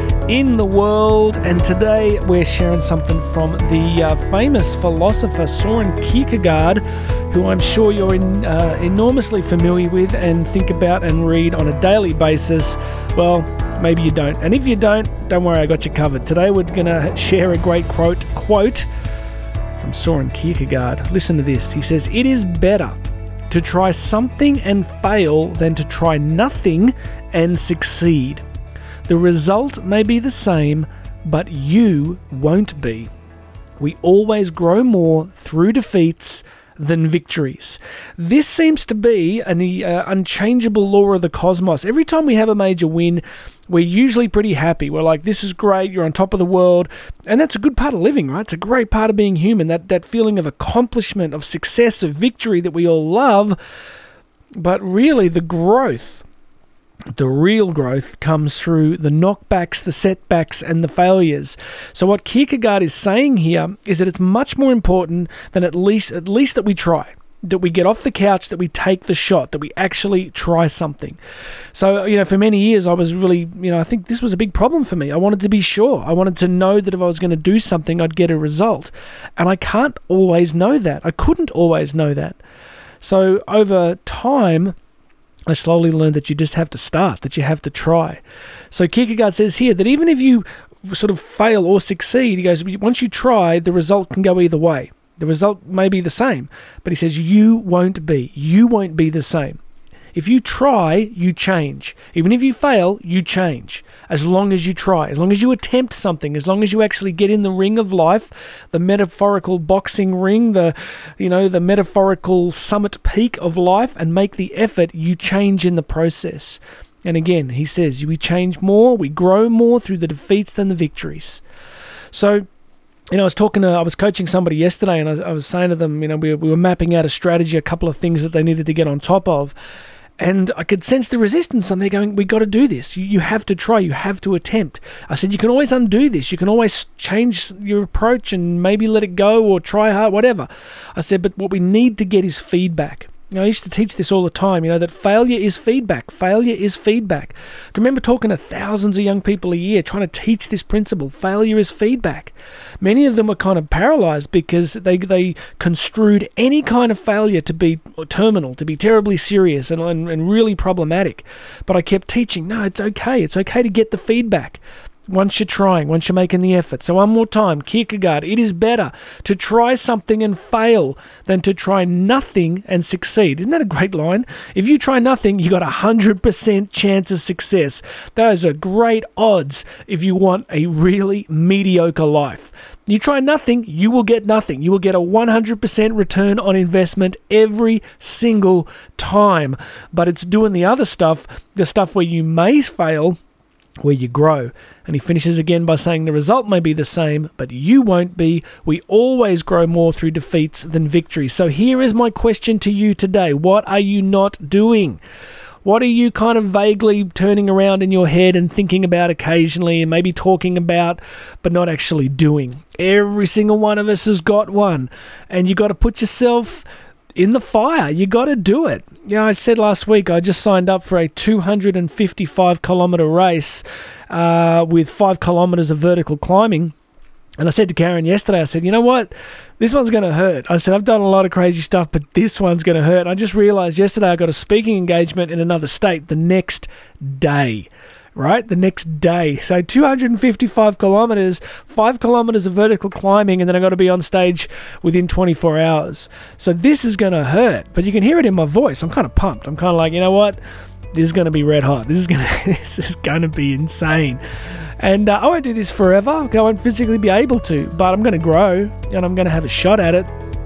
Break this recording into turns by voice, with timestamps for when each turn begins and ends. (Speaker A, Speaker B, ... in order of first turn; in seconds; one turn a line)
Speaker A: 0.2-18.9
Speaker A: 19.8-22.9
Speaker A: 23.5-28.4
Speaker A: 29.1-33.1
Speaker A: 33.8-53.6
Speaker A: 54.6-56.2
Speaker A: 57.1-71.2
Speaker A: 71.7-82.4
Speaker A: 83.0-84.8
Speaker A: 85.5-99.6
Speaker A: 100.1-121.4
Speaker A: 122.1-122.5
Speaker A: 123.1-129.5
Speaker A: 130.2-193.2
Speaker A: 193.8-205.0
Speaker A: 205.6-226.7
Speaker A: 227.4-250.4
Speaker A: 250.9-254.2
Speaker A: 254.8-260.1